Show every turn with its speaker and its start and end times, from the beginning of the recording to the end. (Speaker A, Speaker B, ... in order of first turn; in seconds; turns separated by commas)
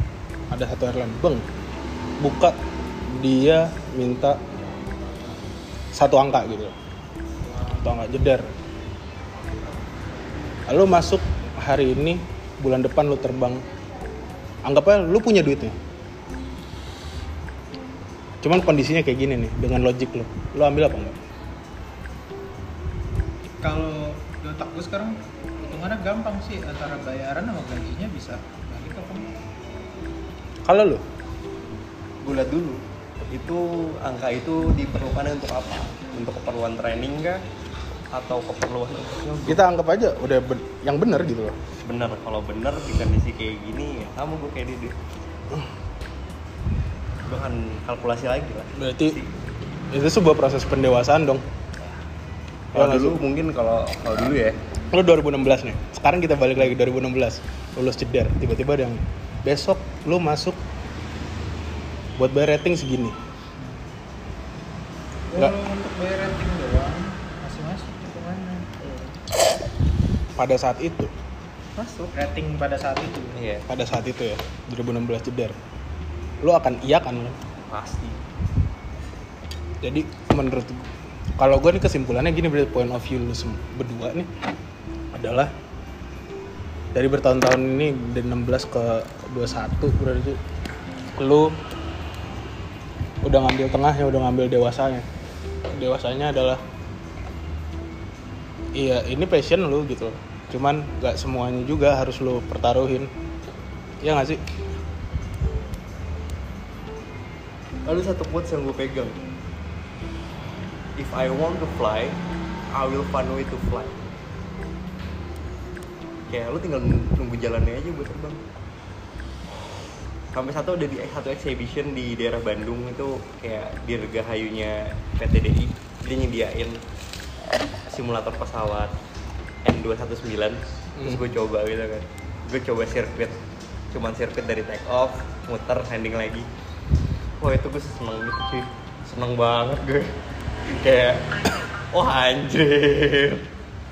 Speaker A: 0.5-1.4, Speaker A: 2.2-2.6, Speaker A: 3.1-4.4, Speaker A: 5.9-6.7, Speaker A: 7.7-8.4, Speaker A: 10.7-13.6, Speaker A: 14.6-15.7, Speaker A: 18.4-21.2, Speaker B: 23.6-29.3, Speaker A: 30.6-31.0, Speaker C: 32.2-37.4, Speaker C: 38.1-39.6, Speaker A: 39.5-41.5, Speaker C: 41.8-45.0, Speaker C: 47.2-49.3, Speaker A: 48.8-49.2, Speaker A: 49.9-51.5, Speaker C: 52.7-54.6, Speaker A: 52.7-53.2, Speaker A: 54.9-60.6, Speaker A: 62.2-63.1, Speaker B: 65.3-68.8, Speaker A: 70.4-71.1, Speaker C: 71.8-72.1, Speaker B: 72.1-73.4, Speaker C: 73.3-73.6, Speaker A: 73.7-75.5, Speaker A: 76.4-77.4, Speaker C: 77.6-78.2, Speaker A: 79.8-80.9, Speaker A: 81.4-84.3, Speaker A: 85.1-85.5, Speaker A: 86.9-90.4, Speaker A: 91.1-91.5, Speaker A: 93.2-95.0, Speaker A: 95.7-96.6, Speaker A: 98.8-103.1, Speaker A: 104.0-104.4, Speaker C: 107.8-109.2, Speaker C: 111.0-112.2, Speaker C: 112.7-114.0, Speaker C: 116.3-118.4, Speaker C: 120.3-126.8, Speaker C: 127.9-128.9, Speaker C: 129.6-133.4, Speaker C: 133.9-136.5, Speaker C: 137.4-140.1, Speaker C: 140.7-141.3, Speaker C: 141.9-143.4